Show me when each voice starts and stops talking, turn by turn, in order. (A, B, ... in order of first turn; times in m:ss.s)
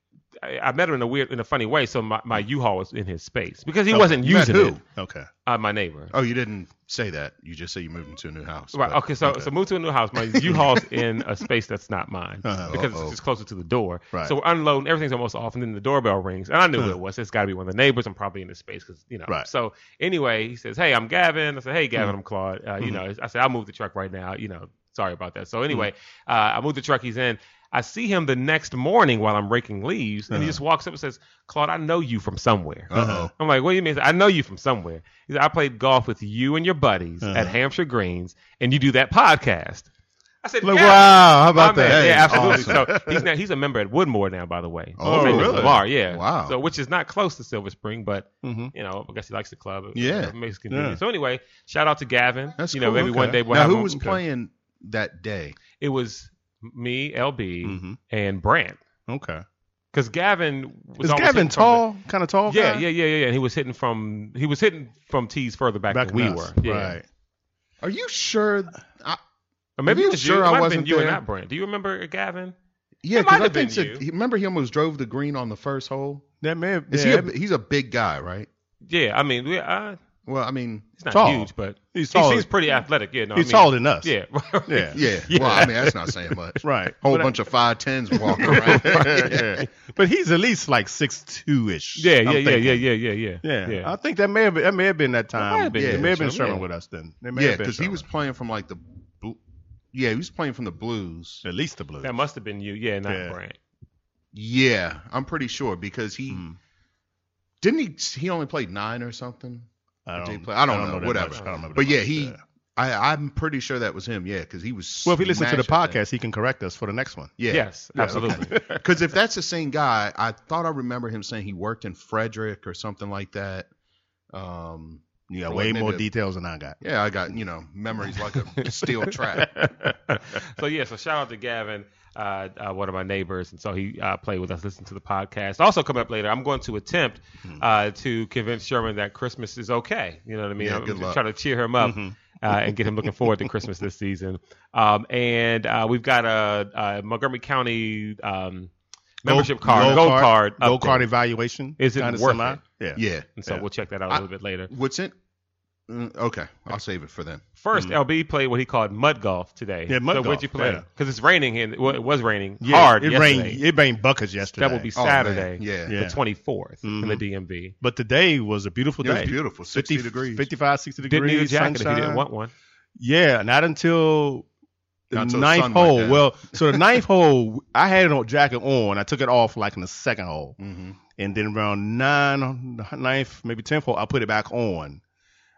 0:00.4-0:04.8 A
0:03.9-0:04.2 B
0:04.2-0:04.8 C
0:04.8-0:05.3 B
0:05.4-0:06.1 A
0:06.1-0:09.5 C
0:08.7-0:39.9 A
0:10.4-0:10.8 B
0:12.4-0:12.8 B
0:12.6-0:13.2 C
0:30.3-0:30.6 B
0:32.9-0:33.3 C
0:32.9-0:33.3 B
0:37.2-0:37.5 B
0:40.4-0:54.2 A
0:40.6-0:43.2 B
0:41.8-0:43.0 C
0:45.0-0:46.5 C
0:45.0-0:45.8 B
0:48.4-0:48.7 B
0:49.9-0:50.3 C
0:50.7-0:51.0 B
0:52.6-0:55.6 C
0:53.0-0:53.4 B
0:55.8-0:58.8 A
0:57.6-0:58.0 B
0:59.1-0:59.4 B
0:59.9-1:01.8 A
1:01.0-1:02.8 B
1:02.5-1:07.0 A
1:05.9-1:07.0 B
1:07.8-1:09.2 C
1:09.8-1:12.5 A
1:09.8-1:11.2 C
1:13.0-1:16.3 C
1:13.1-1:14.0 A
1:16.4-1:17.3 B
1:16.9-1:18.5 C
1:18.8-1:20.0 A
1:20.2-1:20.9 C
1:21.0-1:26.1 A
1:21.1-1:22.5 B
1:23.3-1:24.1 B
1:24.7-1:25.0 B
1:24.9-1:29.5 C
1:26.6-1:27.3 B
1:28.3-1:32.8 B
1:28.4-1:29.7 A
1:32.0-1:33.9 A
1:33.4-1:38.0 B
1:35.4-1:36.6 A
1:35.8-1:36.2 C
1:37.3-1:39.4 C
1:39.9-1:41.4 C
1:41.4-1:42.1 B
1:42.0-1:43.6 A
1:43.1-1:43.4 B
1:44.3-1:46.4 C
1:46.3-1:46.6 B
1:47.6-1:56.0 C
1:50.0-1:52.4 B
1:55.0-1:57.3 B
1:57.4-2:03.7 C
1:57.5-1:58.6 A
1:58.0-1:58.8 B
2:04.3-2:06.0 C
2:05.3-2:06.8 B
2:06.8-2:09.6 C
2:09.4-2:09.9 B
2:09.4-2:28.7 A
2:20.6-2:21.2 C
2:21.8-2:22.7 B
2:29.2-2:31.1 A
2:29.2-2:33.6 B
2:29.7-2:30.0 C
2:31.8-2:32.6 A
2:33.0-2:33.4 C
2:33.4-2:34.7 A
2:34.1-2:35.1 C
2:35.9-2:37.4 C
2:37.6-2:43.6 A
2:39.9-2:40.8 B
2:42.6-2:44.9 B
2:44.4-2:47.7 A
2:45.0-2:46.0 C
2:45.9-2:46.2 B
2:46.8-2:47.2 B
2:47.8-2:52.2 B
2:49.0-2:50.5 C
2:51.0-2:52.5 A
2:53.0-2:54.4 B
2:55.1-2:56.5 C
2:55.1-3:00.6 B
3:00.6-3:01.0 C
3:01.2-3:05.0 B